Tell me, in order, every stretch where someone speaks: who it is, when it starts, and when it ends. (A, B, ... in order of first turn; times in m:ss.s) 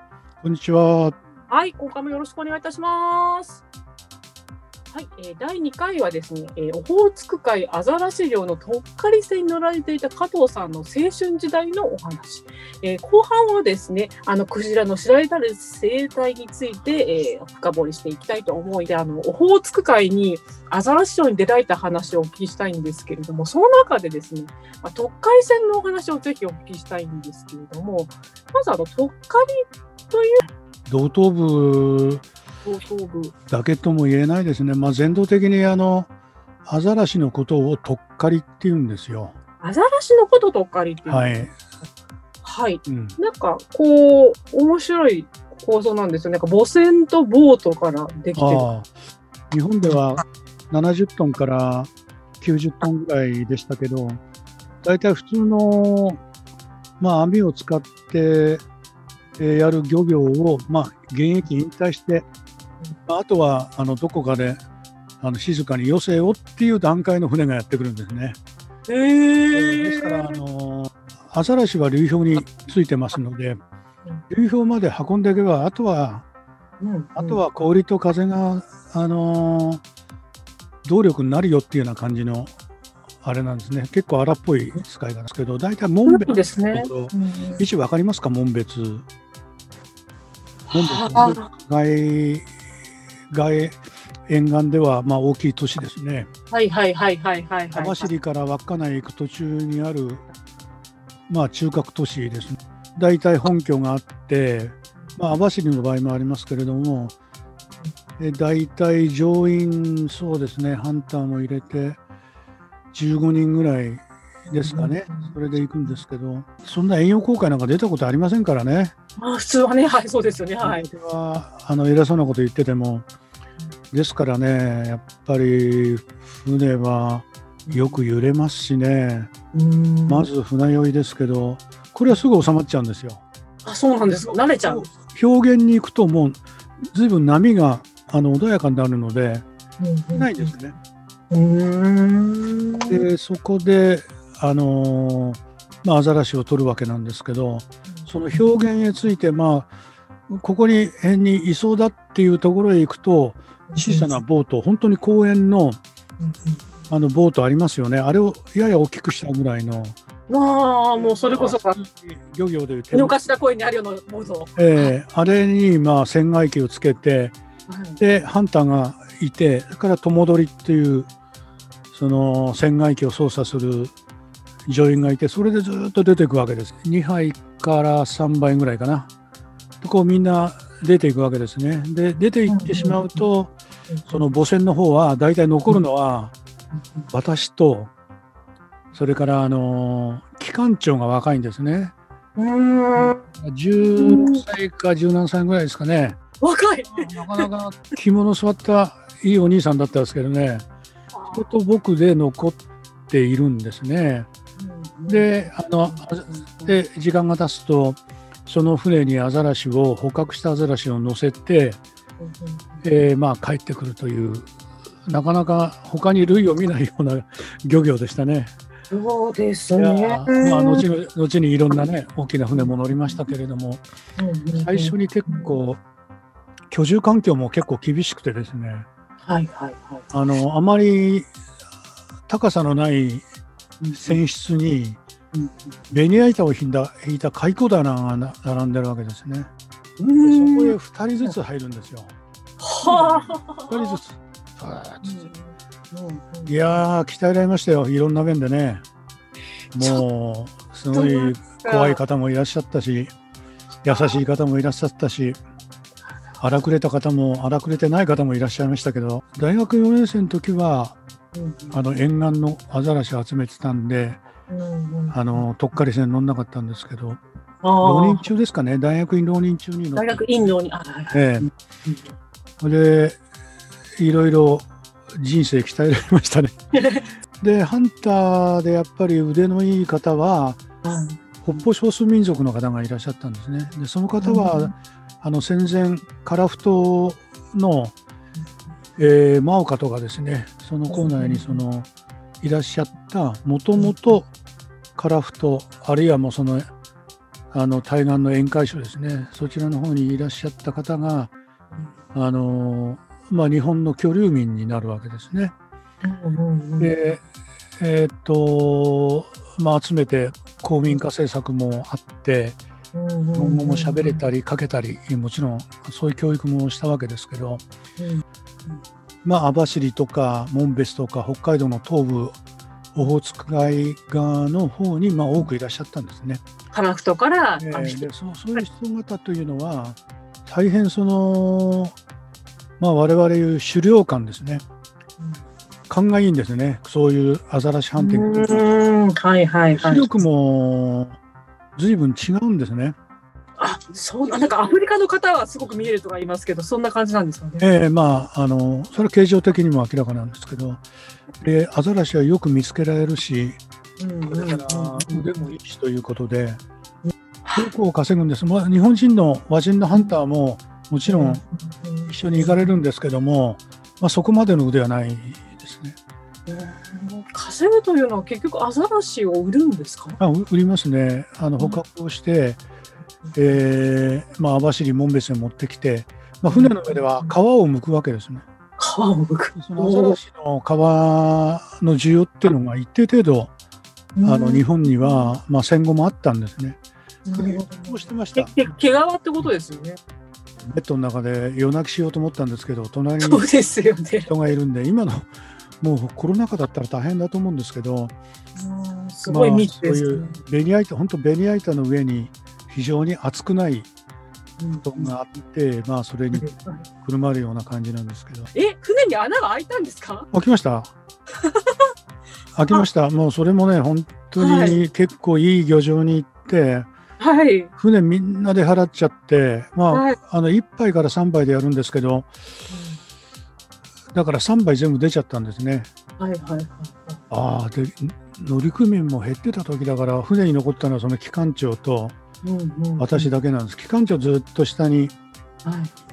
0:00.4-0:01.2 A
0:01.5-0:03.6 B
0:04.9-0:30.5 B
0:30.8-0:32.2 A
0:32.6-0:33.3 B
0:33.5-0:36.1 A
0:36.6-0:39.4 A
0:39.6-0:41.5 B
0:41.0-0:41.5 A
0:42.4-0:48.7 B
0:42.8-0:43.2 A
0:48.4-0:48.9 A
0:49.5-0:54.2 A
0:54.8-0:56.2 A
0:57.0-0:58.6 A
0:59.4-1:02.2 A
1:03.1-1:04.6 A
1:05.2-1:08.4 A
1:08.9-1:10.4 B
1:09.5-1:13.6 A
1:14.3-1:16.2 A
1:16.8-1:17.4 B
1:17.2-1:19.8 A
1:20.8-1:22.5 A
1:23.2-1:29.0 A
1:26.1-1:27.6 B
1:30.7-1:31.5 B
1:30.7-1:32.5 A
1:33.3-1:36.3 A
1:36.5-1:38.1 B
1:37.7-1:40.2 A
1:41.3-1:47.1 A
1:48.2-1:52.0 A
1:52.9-1:58.9 A
1:54.5-1:55.4 B
1:59.2-2:00.8 B
2:00.6-2:03.0 A
2:03.9-2:09.3 A
2:07.6-2:08.0 B
2:09.5-2:10.3 B
2:10.1-2:13.2 A
2:13.6-2:14.8 B
2:14.1-2:19.4 A
2:19.8-2:20.5 B
2:20.1-2:20.7 A
2:21.3-2:23.0 B
2:22.9-2:29.7 A
2:27.9-2:28.4 B
2:30.3-2:35.8 A
2:33.7-2:34.1 B
2:36.2-2:36.6 B
2:36.9-2:40.0 A
2:40.3-2:41.8 B
2:41.0-2:43.1 A
2:42.9-2:44.9 B
2:44.6-2:47.4 A
2:47.7-2:48.0 B
2:48.0-2:51.1 A
2:51.9-2:53.9 A
2:54.6-2:59.1 A
2:59.8-3:03.5 A
3:02.5-3:03.2 B
3:04.1-3:06.3 A
3:06.7-3:07.1 B
3:07.1-3:07.9 A
3:08.9-3:11.9 A
3:12.4-3:13.2 B
3:12.9-3:16.2 A
3:14.0-3:14.4 B
3:16.4-3:17.5 B
3:16.9-3:20.6 A
3:21.1-3:21.5 B
3:21.3-3:24.3 A
3:24.6-3:25.3 B
3:25.1-3:31.8 A
3:25.9-3:26.8 B
3:32.2-3:32.8 B
3:32.8-3:34.5 A
3:35.0-3:38.5 A
3:38.9-3:40.8 B
3:39.7-3:43.8 A
3:44.2-3:45.5 B
3:44.6-3:45.8 A
3:46.7-3:48.9 A
3:49.2-3:50.1 B
3:50.1-3:51.3 A
3:52.3-3:53.2 A
3:53.8-3:54.2 B
3:53.9-3:55.0 A
3:55.3-3:55.7 B
3:55.9-3:59.5 A
4:00.0-4:01.3 B
4:00.2-4:02.1 A
4:02.6-4:04.0 B
4:02.8-4:05.3 A
4:05.0-4:06.6 B
4:06.5-4:08.8 A
4:09.7-4:13.1 A
4:10.9-4:12.0 B
4:13.8-4:15.4 A
4:16.4-4:21.0 A
4:21.3-4:21.8 B
4:21.7-4:24.2 A
4:24.5-4:25.4 B
4:25.1-4:27.2 A
4:27.6-4:28.3 B
4:27.8-4:30.3 A
4:30.0-4:32.1 B
4:31.1-4:31.5 A
4:32.6-4:33.2 A
4:34.0-4:36.6 A
4:36.7-4:37.1 B
4:37.4-4:40.6 A
4:40.8-4:41.6 B
4:41.4-4:47.9 A
4:44.2-4:44.7 B
4:49.0-4:51.9 A
4:50.9-4:51.6 B
4:52.4-4:54.3 A
4:55.0-4:56.7 A
4:57.5-5:01.3 A
5:02.1-5:05.5 A
5:06.0-5:06.9 B
5:06.8-5:07.2 A
5:07.8-5:12.6 A
5:12.9-5:14.2 B
5:13.3-5:17.6 A
5:18.0-5:18.8 B
5:19.2-5:22.4 A
5:22.9-5:26.4 A
5:26.7-5:28.6 B
5:27.6-5:31.9 A
5:32.8-5:34.6 A
5:35.9-5:38.6 A
5:38.0-5:40.2 B
5:39.7-5:41.2 A
5:41.8-5:43.0 A
5:43.6-5:47.7 B
5:47.6-5:50.8 A
5:51.4-5:53.6 A
5:54.0-5:55.4 B
5:54.2-5:56.6 A
5:57.0-5:57.7 B
5:57.5-6:01.4 A
6:01.1-6:02.6 B
6:02.1-6:06.0 A
6:06.5-6:10.2 B
6:10.2-6:12.6 A
6:13.3-6:18.4 A
6:16.5-6:17.4 B
6:18.8-6:20.2 B
6:19.5-6:23.5 A
6:24.2-6:25.3 B
6:24.2-6:26.8 A
6:27.2-6:30.0 B
6:27.3-6:28.6 A
6:30.7-6:33.5 A
6:33.2-6:34.3 B
6:34.2-6:38.1 A
6:38.6-6:40.4 B
6:39.3-6:43.9 A
6:44.6-6:45.1 B
6:44.8-6:46.5 A
6:46.3-6:46.8 B
6:47.0-6:48.5 A
6:48.5-6:50.3 B
6:50.3-6:50.9 A
6:51.4-6:51.8 B
6:52.5-6:56.9 A
6:54.4-6:54.8 B
6:57.2-6:57.7 B
6:57.8-7:02.3 A
6:59.9-7:00.2 B
7:02.7-7:03.0 B
7:04.1-7:05.9 A
7:06.2-7:07.2 B
7:07.3-7:12.2 A
7:12.4-7:13.3 B
7:13.0-7:15.1 A
7:15.6-7:15.9 B